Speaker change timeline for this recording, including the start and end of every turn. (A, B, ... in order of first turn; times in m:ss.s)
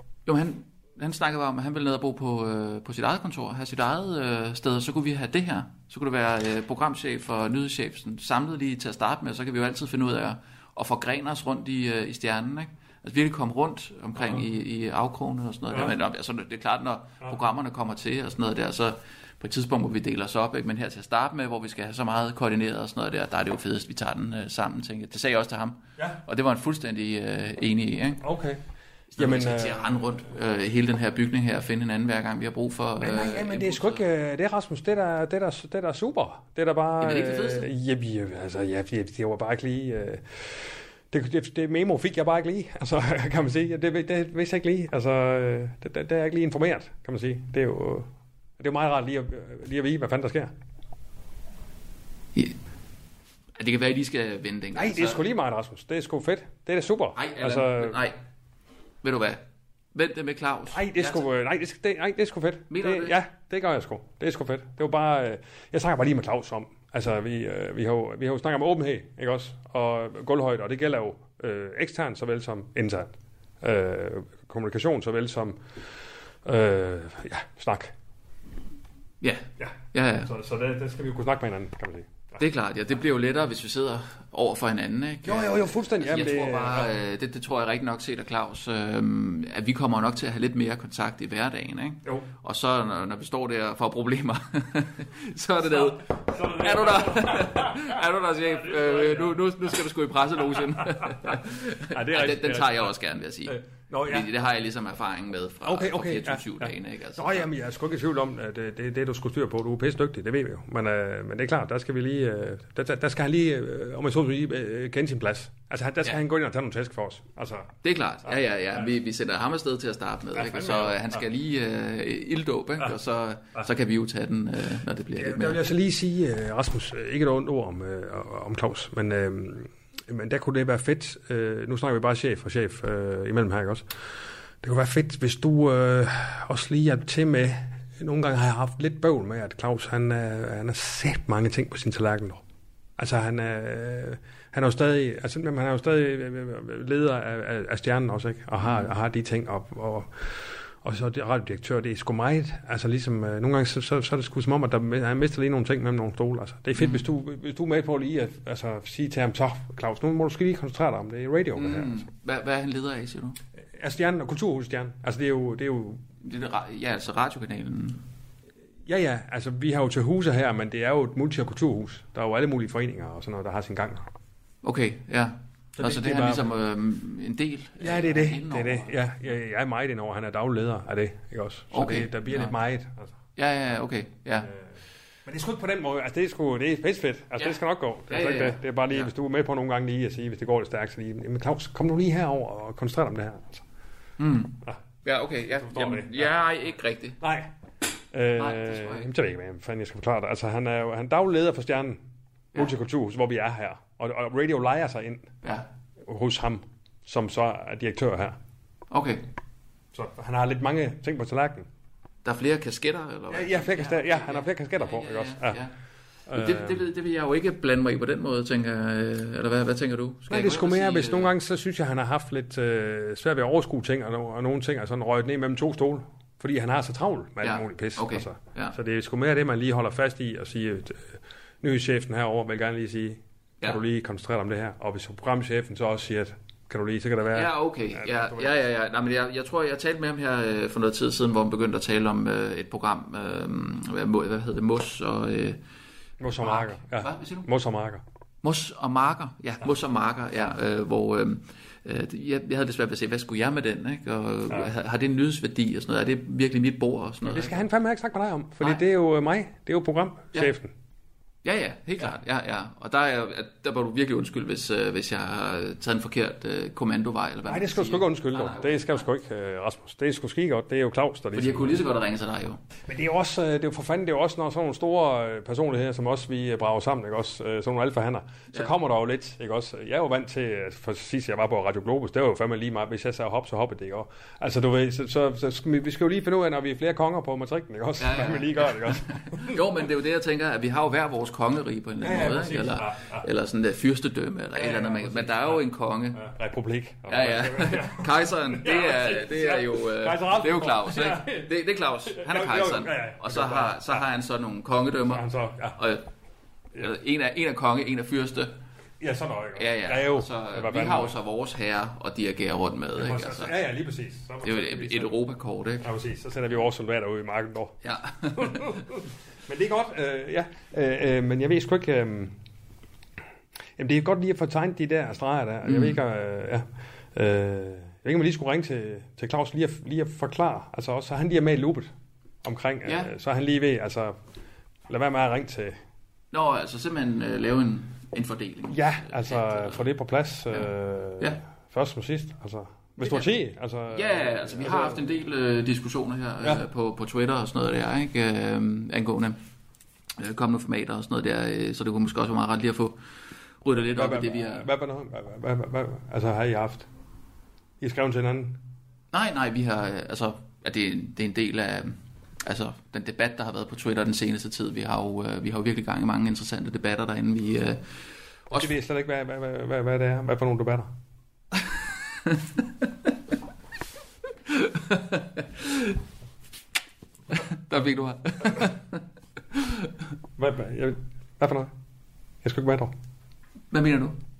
0:00.2-0:28.2 A
0:28.2-0:28.6 B
0:29.1-0:29.9 B
0:29.2-0:34.0 A
0:33.0-0:50.5 B
0:37.0-0:37.7 A
0:53.6-0:55.2 A
0:54.7-0:58.0 B
0:57.2-0:58.2 A
0:59.0-0:59.4 A
0:59.9-1:01.2 A
1:00.7-1:15.6 B
1:02.7-1:03.2 A
1:16.4-1:17.9 B
1:19.2-1:20.3 A
1:19.6-1:22.4 B
1:22.4-1:47.5 A
1:25.2-1:26.9 B
1:35.6-1:38.0 B
1:38.6-1:39.4 B
1:40.6-1:42.9 B
1:43.4-1:44.3 B
1:45.6-1:57.7 B
1:57.8-2:05.6 A
2:00.3-2:01.2 B
2:05.1-2:13.8 B
2:14.6-2:22.4 B
2:23.0-2:41.9 B
2:28.6-2:28.9 A
2:36.8-2:37.0 A
2:41.5-2:43.4 A
2:43.8-2:46.0 B
2:46.2-2:48.0 A
2:48.8-2:54.0 B
2:54.6-2:59.0 A
2:55.8-2:56.5 B
2:57.8-3:03.1 B
3:01.7-3:02.5 A
3:03.4-3:04.5 A
3:05.2-3:13.6 B
3:07.4-3:09.1 A
3:14.2-3:17.2 A
3:15.6-3:16.3 B
3:17.2-3:17.5 B
3:18.1-3:22.0 B
3:18.3-3:19.1 A
3:22.5-3:25.3 B
3:26.0-3:28.4 B
3:28.9-3:29.2 A
3:29.9-3:31.7 B
3:32.2-3:35.7 A
3:33.3-3:35.6 B
3:36.3-3:36.8 B
3:36.3-3:41.3 A
3:40.3-3:58.5 B
3:47.4-3:48.8 A
3:57.3-4:05.6 A
4:06.2-4:08.0 B
4:06.4-4:07.5 A
4:08.4-4:17.6 A
4:17.2-4:20.7 B
4:21.4-4:29.0 A
4:27.4-4:31.8 B
4:31.3-4:32.6 A
4:32.9-4:49.6 B
4:48.0-4:56.3 A
4:52.0-4:53.3 B
4:54.5-4:55.6 B
4:56.1-5:01.5 B
4:57.1-5:06.0 A
5:02.1-5:04.0 B
5:05.1-5:05.8 B
5:06.8-5:08.5 A
5:09.0-5:11.1 B
5:09.6-5:13.5 A
5:13.0-5:15.2 B
5:14.4-5:15.8 A
5:15.8-5:17.8 B
5:17.8-5:18.8 A
5:18.3-5:18.9 B
5:19.5-5:22.4 B
5:23.8-5:31.9 B
5:25.6-5:26.0 A
5:32.4-5:34.2 B
5:32.8-5:33.1 A
5:34.9-5:35.8 B
5:36.3-5:39.8 A
5:38.7-5:45.0 B
5:43.0-5:43.3 A
5:43.9-5:49.4 A
5:50.2-5:53.0 A
5:53.6-5:54.7 A
5:53.9-5:56.8 B
5:57.8-5:58.6 B
5:59.1-6:07.9 A
6:08.5-6:08.7 A
6:08.5-6:10.9 B
6:12.2-6:12.6 A
6:14.5-6:16.0 A
6:17.3-6:19.0 A
6:19.5-6:19.9 A
6:20.4-6:21.7 B
6:22.4-6:22.9 B
6:23.7-6:24.2 A